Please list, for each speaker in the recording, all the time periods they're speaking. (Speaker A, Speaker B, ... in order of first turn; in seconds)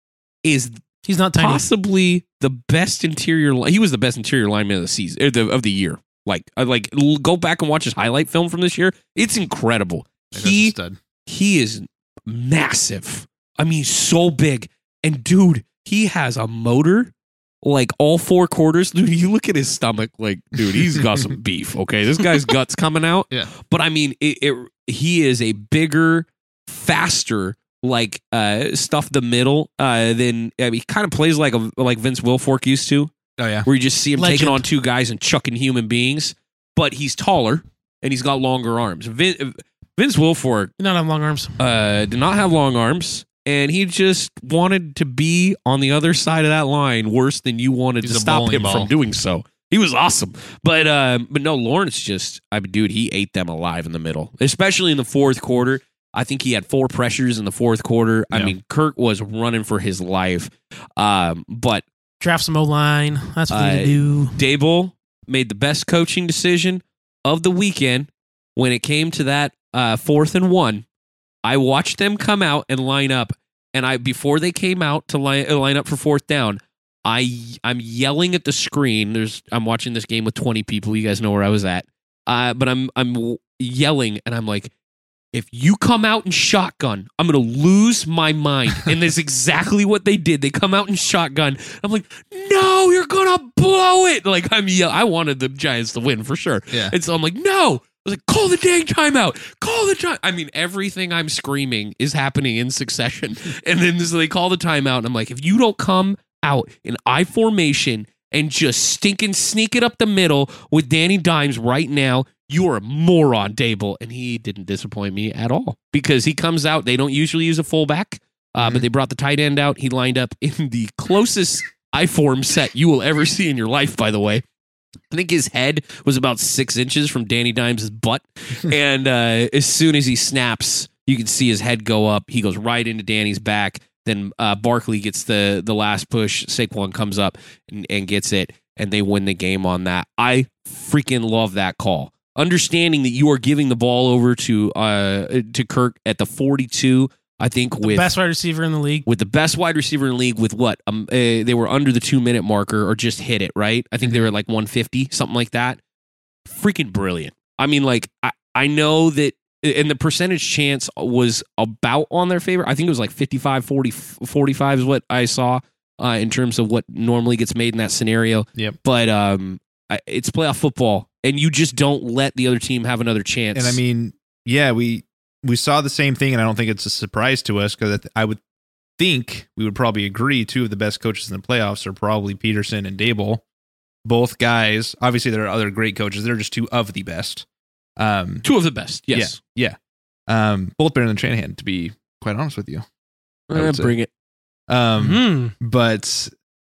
Speaker A: 0.5-0.8, 1.4-17.1, 17.6-33.1, 33.6-40.7, 41.6-61.8, 63.5-70.8, 71.5-84.7, 85.3-124.4, 125.1-148.1, 149.1-155.8, 156.5-173.8, 188.4-189.4, 193.5-194.1
Speaker B: 1.1-1.6, 34.2-34.6, 40.8-41.6, 62.2-64.4, 147.8-149.1, 195.0-195.5
Speaker C: 10.3-11.0, 21.0-21.3, 33.4-33.7, 48.0-48.9, 118.6-118.9, 173.6-178.4, 179.0-183.4, 184.1-187.4, 188.0-188.4, 189.1-189.8, 190.3-192.8, 193.5-193.9, 194.7-196.3